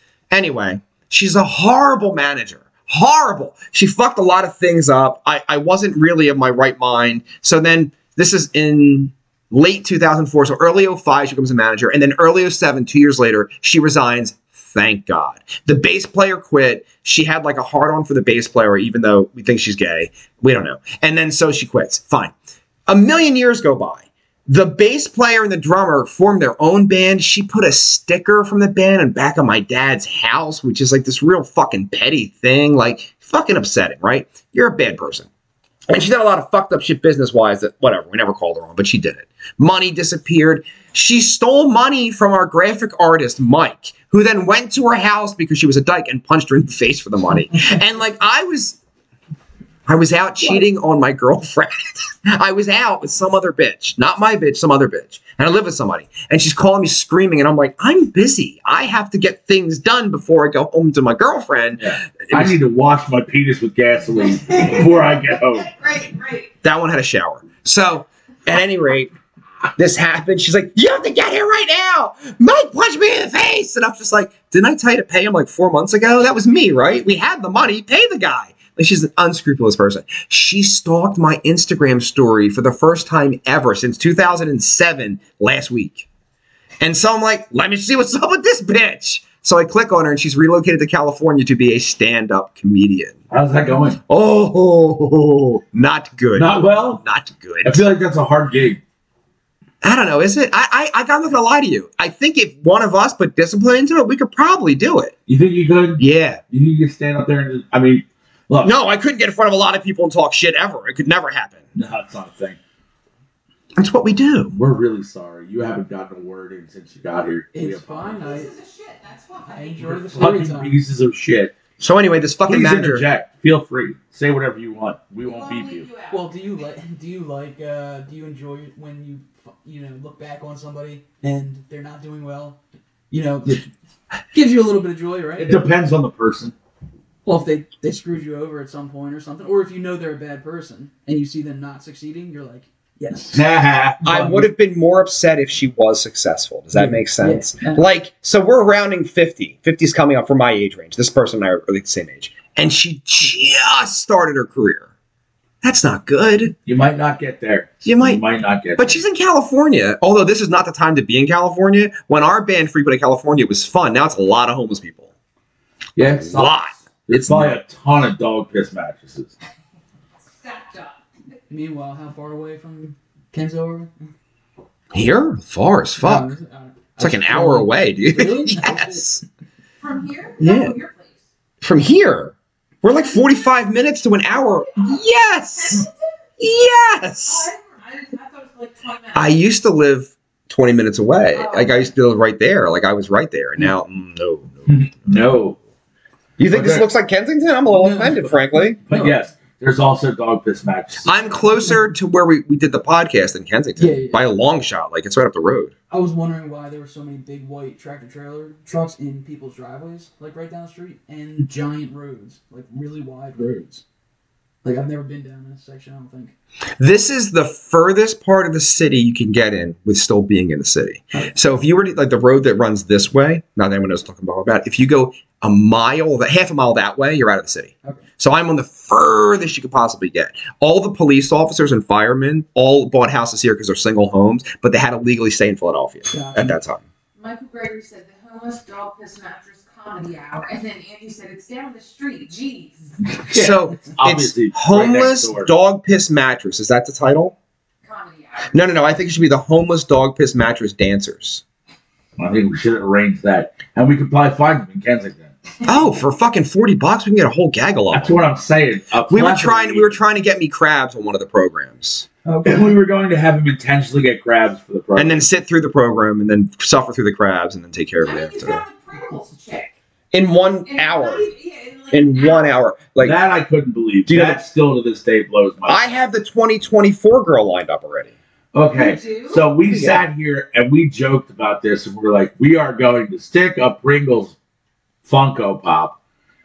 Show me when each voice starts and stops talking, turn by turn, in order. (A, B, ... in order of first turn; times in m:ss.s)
0:00.3-0:22.3 A
0:22.9-0:35.3 A
0:35.9-0:48.8 A
0:49.9-1:02.6 A
1:01.8-1:05.7 B
1:04.1-1:06.5 C
1:06.6-1:09.1 A
1:09.8-1:26.1 A
1:26.8-1:33.2 A
1:33.3-1:34.0 B
1:34.1-1:37.9 A
1:36.4-1:37.0 B
1:37.6-1:38.8 B
1:39.8-1:45.1 A
1:45.3-1:48.7 B
1:46.0-1:46.4 A
1:48.6-1:51.6 A
1:51.8-1:52.6 B
1:53.8-1:54.5 A
1:54.5-1:58.3 B
1:57.5-1:58.5 D
1:58.2-1:59.9 C
1:59.5-2:00.8 D
1:59.8-2:01.6 B
2:01.8-2:03.1 A
2:02.5-2:05.9 B
2:05.2-2:06.3 C
2:06.1-2:12.6 D
2:13.1-2:13.7 D
2:14.3-2:15.6 D
2:15.4-2:16.6 B
2:17.2-2:23.5 D
2:23.3-2:24.5 B
2:24.0-2:34.9 A
2:26.8-2:27.8 D
2:35.6-2:36.6 A
2:36.7-2:39.0 B
2:37.8-2:38.2 A
2:38.8-2:45.1 A
2:46.0-2:49.4 B
2:46.0-2:47.6 A
2:50.3-2:51.0 C
2:51.5-2:53.9 D
2:54.9-2:56.3 A
2:56.0-2:59.1 D
2:57.0-2:59.2 A
2:59.8-3:01.2 C
3:00.4-3:00.8 A
3:01.6-3:05.9 A
3:04.3-3:05.0 C
3:05.6-3:06.1 C
3:06.4-3:07.5 A
3:07.2-3:09.4 C
3:09.1-3:15.2 A
3:11.3-3:11.9 C
3:14.7-3:15.6 B
3:16.4-3:18.8 A
3:16.5-3:16.9 B
3:17.7-3:19.2 D
3:18.9-3:21.2 B
3:21.0-3:25.7 A
3:23.8-3:24.3 D
3:25.9-3:33.8 D
3:34.6-3:36.3 D
3:36.8-3:56.8 A
3:56.1-3:56.6 D
3:57.2-4:03.0 C
4:03.0-4:05.5 B
4:03.3-4:07.4 A
4:07.8-4:08.6 C
4:08.5-4:11.4 A
4:12.2-4:15.4 B
4:15.7-4:18.2 A
4:17.9-4:20.0 B
4:19.1-4:22.1 A
4:22.2-4:22.8 D
4:22.4-4:25.2 B
4:25.0-4:28.6 A
4:28.0-4:29.7 C
4:30.1-4:31.3 A
4:30.7-4:32.4 C
4:31.9-4:33.2 A
4:33.0-4:35.9 B
4:34.1-4:34.4 A
4:35.7-4:38.1 A
4:38.5-4:44.4 B
4:38.7-4:39.4 C
4:39.7-4:40.0 A
4:45.0-4:46.0 B